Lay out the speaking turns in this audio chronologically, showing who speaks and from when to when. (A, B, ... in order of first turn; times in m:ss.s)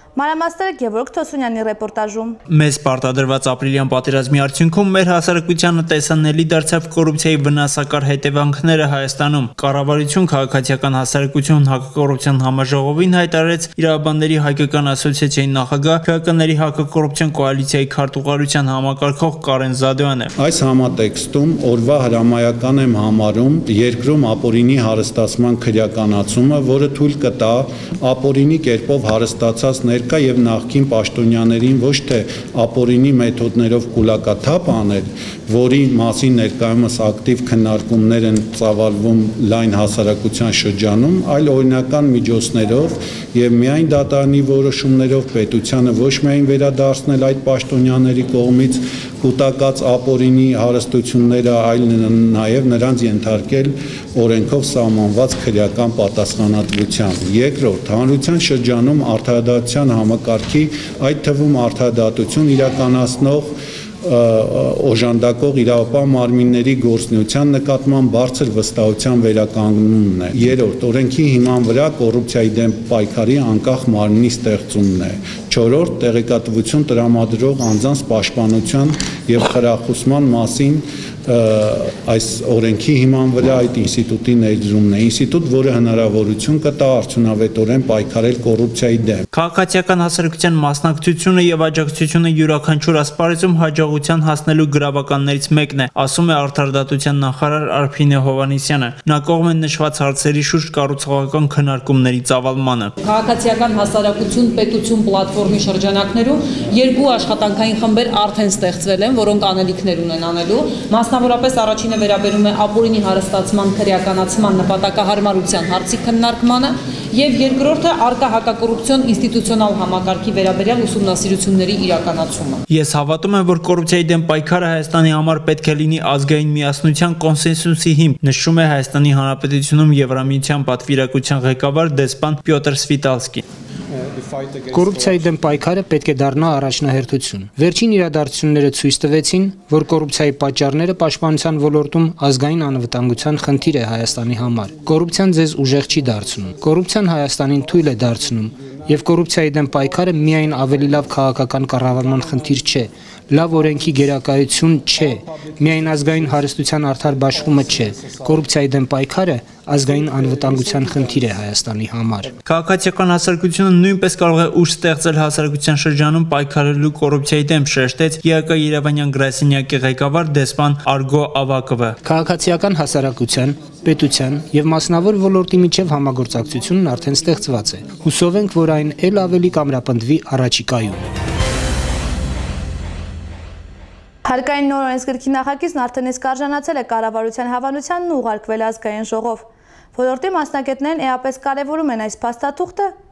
0:00.2-0:02.4 A
0:02.5-0:20.3 B
0:20.4-1:29.2 C
1:29.3-1:42.9 B
1:43.0-2:02.6 D
2:02.7-2:13.4 B
2:14.7-2:42.3 E
2:42.5-2:52.0 B
2:52.0-3:01.0 E
3:04.3-3:12.9 A